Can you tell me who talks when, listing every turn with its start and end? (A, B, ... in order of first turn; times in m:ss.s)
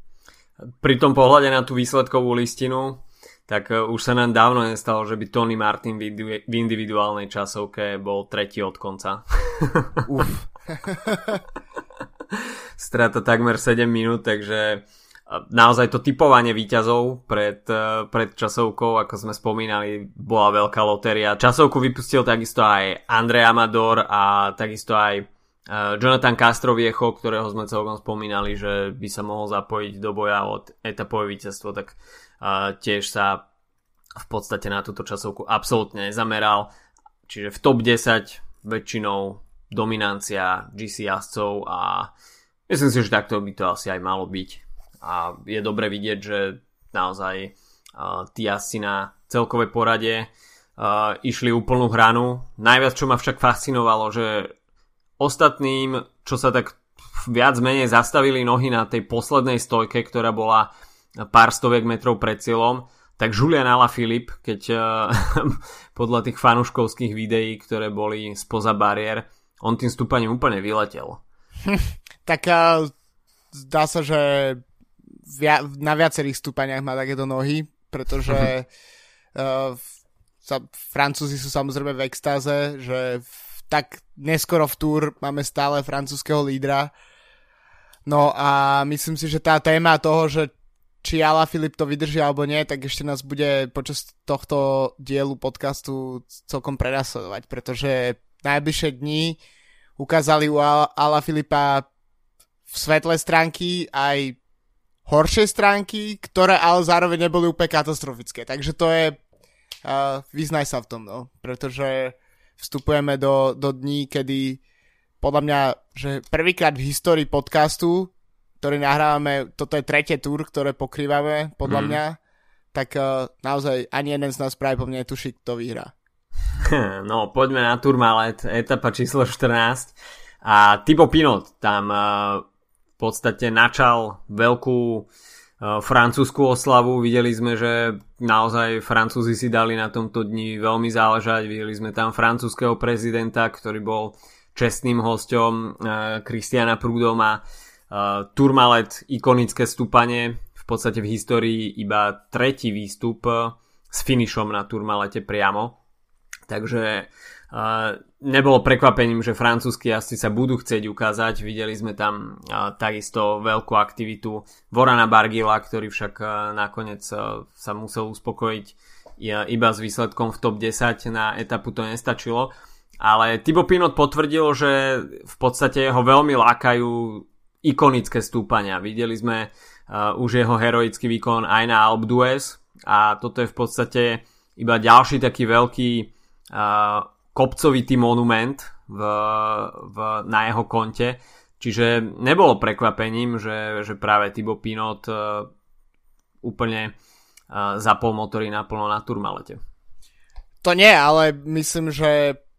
0:00.6-0:10.0 A
0:10.1-0:11.4 B
0:12.3-0:33.4 A
0:34.2-0:36.7 A
0:37.3-0:42.1 A
0:42.7-0:54.5 A
0:55.2-1:11.2 A
1:11.7-1:12.9 B
1:13.5-1:14.6 B
1:15.3-1:18.7 B
1:19.4-1:19.8 B
1:20.4-1:26.9 B
1:28.1-1:30.5 B
1:31.0-1:39.4 B
1:40.0-1:41.9 B
1:42.7-1:44.4 B
1:45.1-1:49.2 B
1:49.8-1:54.6 B
1:55.2-2:02.2 B
2:01.7-2:02.0 A
2:02.7-2:05.9 B
2:06.6-2:12.5 A
2:13.0-2:15.1 A
2:15.6-2:35.8 A
2:36.5-3:15.5 A
3:16.4-3:17.0 A
3:17.5-3:19.6 A
3:20.6-3:22.4 B